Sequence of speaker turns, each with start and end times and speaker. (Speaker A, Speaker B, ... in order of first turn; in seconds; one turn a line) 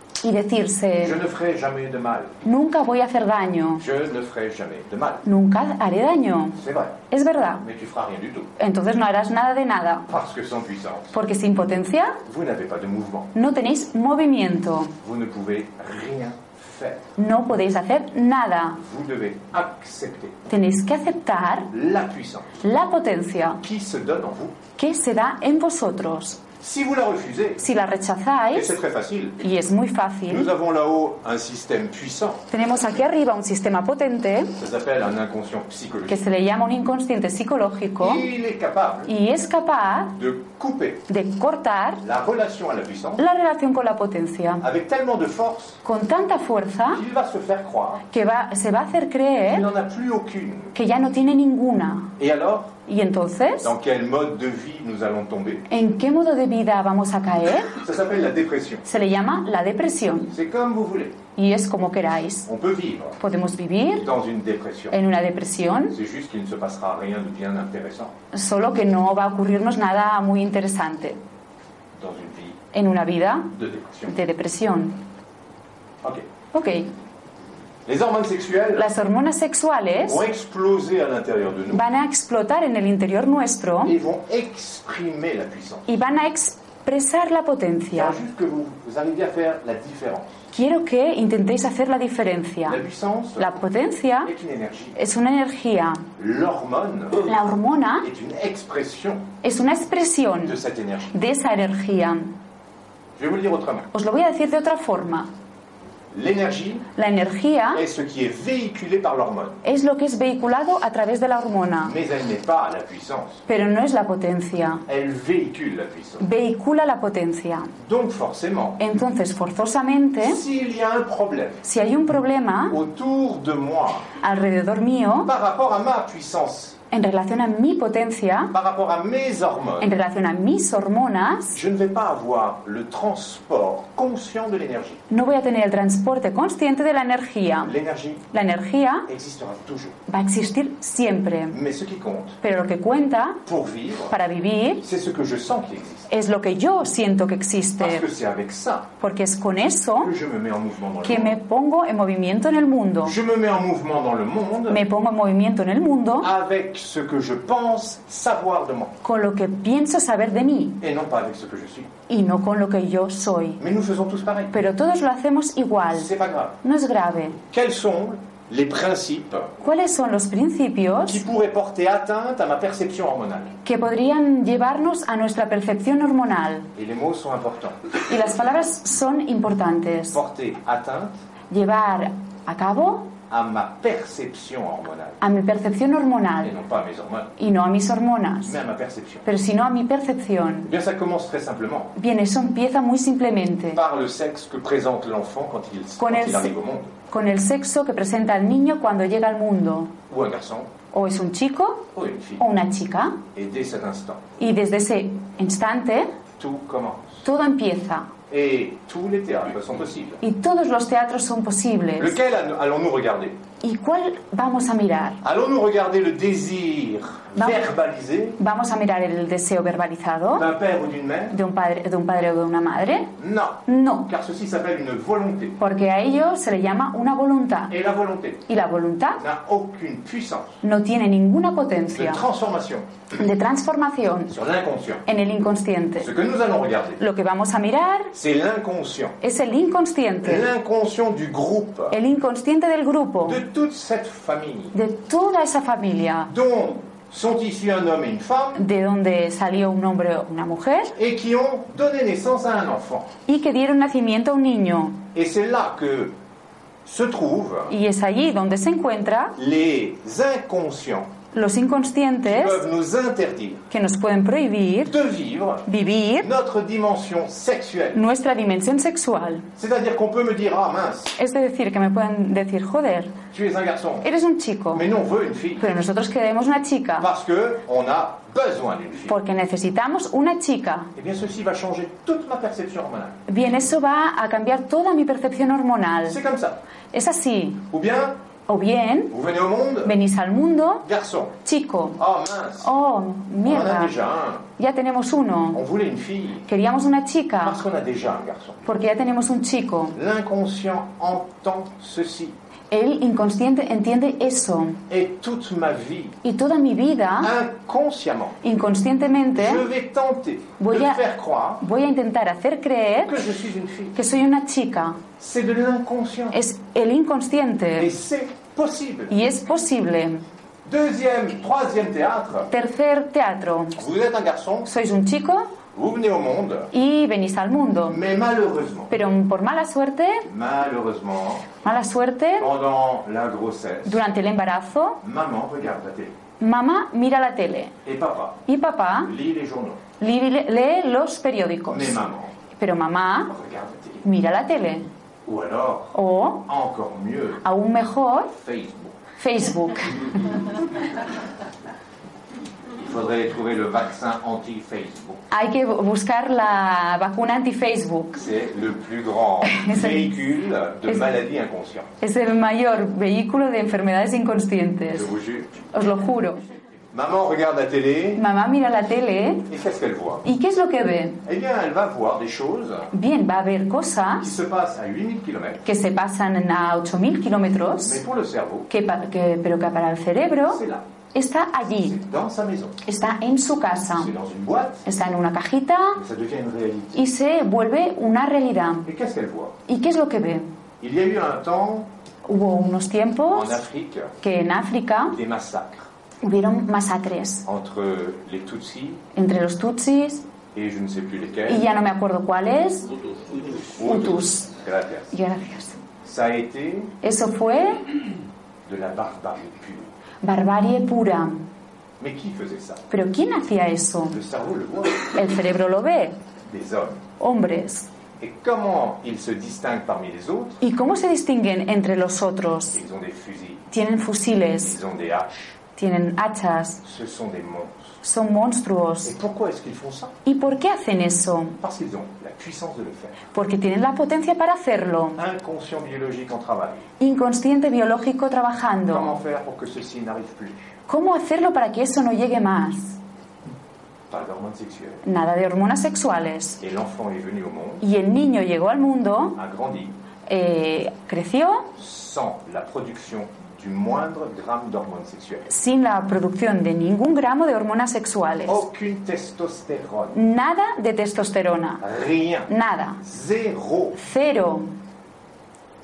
Speaker A: 0.2-1.2
Speaker B: 1.0-2.4
Speaker A: 2.4-3.8
Speaker B: 3.8-5.2
Speaker A: 5.2-7.7
Speaker B: 6.6-7.0
Speaker B: 7.6-8.5
Speaker A: 8.6-10.1
Speaker B: 10.1-11.2
Speaker A: 11.1-12.2
Speaker B: 12.2-13.3
Speaker A: 13.3-15.0
Speaker B: 15.0-17.1
Speaker A: 17.2-18.8
Speaker B: 18.8-20.4
Speaker A: 20.5-21.7
Speaker B: 21.7-22.6
Speaker A: 22.6-23.6
Speaker B: 23.6-24.6
Speaker A: 24.8-26.4
Speaker B: 26.6-27.7
Speaker A: 27.6-28.8
Speaker B: 28.5-29.4
Speaker A: 29.4-30.5
Speaker B: 30.3-32.4
Speaker A: 32.5-34.6
Speaker B: 34.6-36.3
Speaker A: 36.1-38.3
Speaker B: 38.0-39.1
Speaker A: 39.1-40.2
Speaker B: 40.2-41.1
Speaker A: 41.1-42.0
Speaker B: 42.0-43.2
Speaker A: 43.2-44.6
Speaker B: 44.6-45.8
Speaker A: 45.8-47.0
Speaker B: 46.9-48.1
Speaker A: 48.1-49.7
Speaker B: 49.5-50.7
Speaker A: 50.7-52.1
Speaker B: 52.2-52.7
Speaker A: 52.9-53.7
Speaker B: 53.6-55.7
Speaker A: 55.7-57.8
Speaker B: 57.8-58.9
Speaker A: 58.9-60.3
Speaker B: 60.3-61.2
Speaker A: 61.4-62.5
Speaker B: 62.5-63.2
Speaker A: 63.2-64.1
Speaker B: 64.0-65.0
Speaker A: 64.9-66.0
Speaker B: 65.9-68.1
Speaker A: 68.3-71.2
Speaker B: 72.0-72.6
Speaker A: 72.7-73.5
Speaker B: 73.5-74.1
Speaker A: 74.1-75.0
Speaker A: 76.5-76.9
Speaker B: 77.9-78.9
Speaker A: 78.8-80.2
Speaker B: 80.0-81.9
Speaker A: 81.7-84.0
Speaker B: 83.8-85.9
Speaker A: 85.9-88.2
Speaker B: 87.9-90.3
Speaker A: 90.5-92.8
Speaker B: 92.7-93.6
Speaker A: 93.4-94.3
Speaker B: 94.2-95.0
Speaker A: 95.0-96.1
Speaker B: 96.2-97.3
Speaker A: 97.2-98.1
Speaker B: 98.0-99.3
Speaker A: 99.4-100.6
Speaker B: 100.4-101.3
Speaker A: 101.1-102.3
Speaker B: 103.2-103.9
Speaker A: 103.9-105.3
Speaker B: 106.1-106.9
Speaker A: 107.0-107.8
Speaker B: 107.7-109.6
Speaker A: 109.6-112.0
Speaker B: 111.8-113.4
Speaker A: 113.5-114.8
Speaker B: 114.9-116.2
Speaker A: 116.2-117.8
Speaker B: 117.8-118.8
Speaker A: 118.8-120.4
Speaker B: 120.2-121.6
Speaker A: 121.6-122.8
Speaker B: 122.7-124.1
Speaker A: 124.2-125.3
Speaker B: 125.2-126.8
Speaker A: 126.9-128.5
Speaker B: 128.5-129.9
Speaker A: 129.8-131.6
Speaker B: 131.5-135.0
Speaker A: 135.1-137.8
Speaker B: 137.6-138.3
Speaker A: 138.3-139.1
Speaker B: 139.1-140.0
Speaker A: 140.1-141.6
Speaker B: 141.5-142.4
Speaker A: 142.4-143.4
Speaker B: 143.4-144.2
Speaker A: 144.1-144.9
Speaker B: 144.8-146.1
Speaker A: 146.1-148.1
Speaker B: 147.8-148.9
Speaker A: 149.0-150.1
Speaker B: 150.0-151.4
Speaker A: 151.0-153.2
Speaker B: 153.0-154.8
Speaker A: 154.7-156.3
Speaker B: 156.2-158.9
Speaker A: 159.0-160.8
Speaker B: 160.8-161.9
Speaker A: 162.1-163.6
Speaker B: 163.6-164.6
Speaker A: 164.5-166.1
Speaker B: 165.9-166.6
Speaker A: 166.6-167.4
Speaker B: 167.5-169.6
Speaker A: 169.6-171.2
Speaker B: 171.1-173.6
Speaker A: 173.6-176.7
Speaker B: 176.8-177.9
Speaker A: 178.1-180.2
Speaker B: 180.1-181.1
Speaker A: 181.5-183.1
Speaker B: 183.3-185.2
Speaker A: 185.2-186.5
Speaker B: 186.4-187.3
Speaker A: 187.4-188.6
Speaker B: 188.4-189.3
Speaker A: 189.3-190.7
Speaker B: 190.7-191.9
Speaker A: 191.9-193.8
Speaker B: 193.7-196.9
Speaker A: 196.0-196.5
Speaker A: 197.1-199.9
Speaker B: 200.1-200.7
Speaker A: 200.9-203.2
Speaker B: 201.9-202.5
Speaker B: 203.3-204.2
Speaker A: 204.4-206.2
Speaker B: 206.4-207.3
Speaker A: 207.2-208.1
Speaker B: 208.3-210.2
Speaker A: 210.2-212.2
Speaker B: 212.0-213.4
Speaker A: 213.6-215.2
Speaker B: 215.2-218.4
Speaker A: 218.4-220.5
Speaker B: 220.3-221.4
Speaker A: 221.3-224.1
Speaker B: 223.2-225.6
Speaker A: 225.6-227.8
Speaker B: 227.7-228.5
Speaker A: 228.5-229.2
Speaker B: 229.2-230.6
Speaker A: 230.6-232.2
Speaker B: 231.9-232.9
Speaker A: 233.1-234.3
Speaker B: 234.3-235.1
Speaker A: 235.1-236.1
Speaker B: 236.0-237.0
Speaker A: 237.0-238.1
Speaker B: 238.1-239.2
Speaker A: 239.2-240.5
Speaker B: 240.2-242.0
Speaker A: 241.9-243.4
Speaker B: 243.2-244.8
Speaker A: 244.7-246.3
Speaker B: 246.3-248.6
Speaker A: 248.6-250.9
Speaker B: 250.9-253.1
Speaker A: 253.3-255.0
Speaker B: 255.1-256.1
Speaker B: 256.9-257.7
Speaker A: 257.7-259.4
Speaker B: 259.4-261.1
Speaker A: 261.3-262.6
Speaker B: 262.2-263.7
Speaker A: 263.7-264.9
Speaker B: 264.8-265.7
Speaker A: 265.7-266.3
Speaker B: 266.2-268.0
Speaker A: 267.9-269.5
Speaker B: 269.6-271.1
Speaker A: 271.2-273.2
Speaker B: 273.3-274.1
Speaker A: 274.0-274.9
Speaker B: 274.7-275.7
Speaker A: 275.6-277.1
Speaker B: 277.0-279.2
Speaker A: 279.1-280.9
Speaker B: 281.0-283.2
Speaker A: 283.3-286.2
Speaker B: 286.1-286.6
Speaker A: 286.9-287.7
Speaker B: 287.7-288.2
Speaker A: 288.5-289.1
Speaker B: 289.1-290.0
Speaker A: 289.8-290.9
Speaker B: 290.8-291.4
Speaker A: 291.4-292.0
Speaker B: 292.0-292.7
Speaker A: 292.6-293.9
Speaker B: 293.4-294.5
Speaker A: 294.6-295.6
Speaker B: 295.5-296.5
Speaker A: 296.5-297.6
Speaker B: 297.4-298.6
Speaker A: 298.6-300.0
Speaker B: 299.9-302.4
Speaker A: 302.7-304.8
Speaker B: 304.9-306.2
Speaker A: 306.2-307.3
Speaker B: 307.2-308.4
Speaker A: 308.4-309.7
Speaker B: 309.3-311.6
Speaker A: 310.6-311.0
Speaker A: 311.6-313.2
Speaker B: 313.0-314.0
Speaker A: 313.9-315.0
Speaker B: 315.2-316.4
Speaker A: 316.3-317.9
Speaker B: 317.8-319.3
Speaker A: 319.1-320.2
Speaker B: 320.6-322.5
Speaker A: 322.5-323.8
Speaker B: 323.8-324.7
Speaker A: 324.6-325.5
Speaker B: 325.8-326.7
Speaker A: 326.7-328.0
Speaker B: 327.9-328.9
Speaker A: 328.9-330.3
Speaker B: 330.2-331.5
Speaker A: 331.6-332.5
Speaker B: 332.4-334.0
Speaker A: 333.9-335.0
Speaker B: 335.0-336.2
Speaker A: 336.4-337.8
Speaker B: 337.8-339.8
Speaker A: 338.5-339.1
Speaker A: 340.0-343.3
Speaker B: 341.7-342.3
Speaker B: 343.3-344.1
Speaker A: 344.0-344.9
Speaker B: 345.2-347.4
Speaker A: 345.9-346.5
Speaker A: 347.4-348.3
Speaker B: 348.3-349.0
Speaker A: 349.2-350.3
Speaker B: 352.8-355.2
Speaker A: 355.3-358.3
Speaker B: 358.2-361.9
Speaker A: 359.4-360.2
Speaker A: 362.0-365.1
Speaker B: 364.9-365.6
Speaker A: 365.7-366.4
Speaker B: 366.9-368.2
Speaker A: 368.2-369.5
Speaker B: 369.5-370.2
Speaker A: 370.2-371.2
Speaker B: 371.2-372.9
Speaker A: 372.9-374.3
Speaker B: 374.2-375.7
Speaker A: 375.6-378.0
Speaker B: 377.8-378.7
Speaker A: 378.7-382.0
Speaker B: 380.5-380.9
Speaker B: 381.7-382.8
Speaker A: 382.8-384.1
Speaker B: 383.9-384.9
Speaker A: 384.9-386.0
Speaker B: 385.9-387.0
Speaker A: 386.9-388.9
Speaker B: 388.9-389.6
Speaker A: 389.7-390.5
Speaker B: 390.8-391.9
Speaker A: 392.2-393.6
Speaker B: 393.3-394.2
Speaker A: 394.2-395.2
Speaker B: 395.1-395.9
Speaker A: 396.2-397.5
Speaker B: 397.5-399.0
Speaker A: 399.1-400.2
Speaker B: 400.5-401.7
Speaker A: 401.5-402.9
Speaker B: 403.4-405.1
Speaker A: 403.8-404.5
Speaker A: 405.1-405.8
Speaker B: 406.0-406.9
Speaker A: 407.0-407.9
Speaker B: 408.7-409.9
Speaker A: 410.2-411.5
Speaker B: 412.0-412.9
Speaker A: 412.9-414.2
Speaker B: 414.1-415.2
Speaker A: 415.1-416.2
Speaker B: 416.5-417.0
Speaker A: 417.2-417.9
Speaker B: 418.2-420.6
Speaker A: 420.6-422.8
Speaker B: 422.7-423.7
Speaker A: 423.7-424.8
Speaker B: 424.6-425.6
Speaker A: 425.8-426.8
Speaker B: 426.8-428.0
Speaker A: 428.0-429.1
Speaker B: 429.1-430.1
Speaker A: 430.2-431.6
Speaker B: 431.6-433.3
Speaker A: 433.3-435.2
Speaker B: 435.2-436.9
Speaker A: 437.0-439.1
Speaker B: 438.9-440.7
Speaker A: 440.9-443.0
Speaker B: 444.1-445.0
Speaker A: 445.0-446.6
Speaker B: 446.6-447.8
Speaker A: 447.8-449.4
Speaker B: 449.4-449.9
Speaker A: 450.3-451.8
Speaker B: 451.8-455.5
Speaker A: 455.5-458.6
Speaker B: 458.5-460.2
Speaker A: 460.1-461.8
Speaker B: 461.8-462.5
Speaker A: 462.5-463.0
Speaker B: 463.0-464.0
Speaker A: 463.9-464.7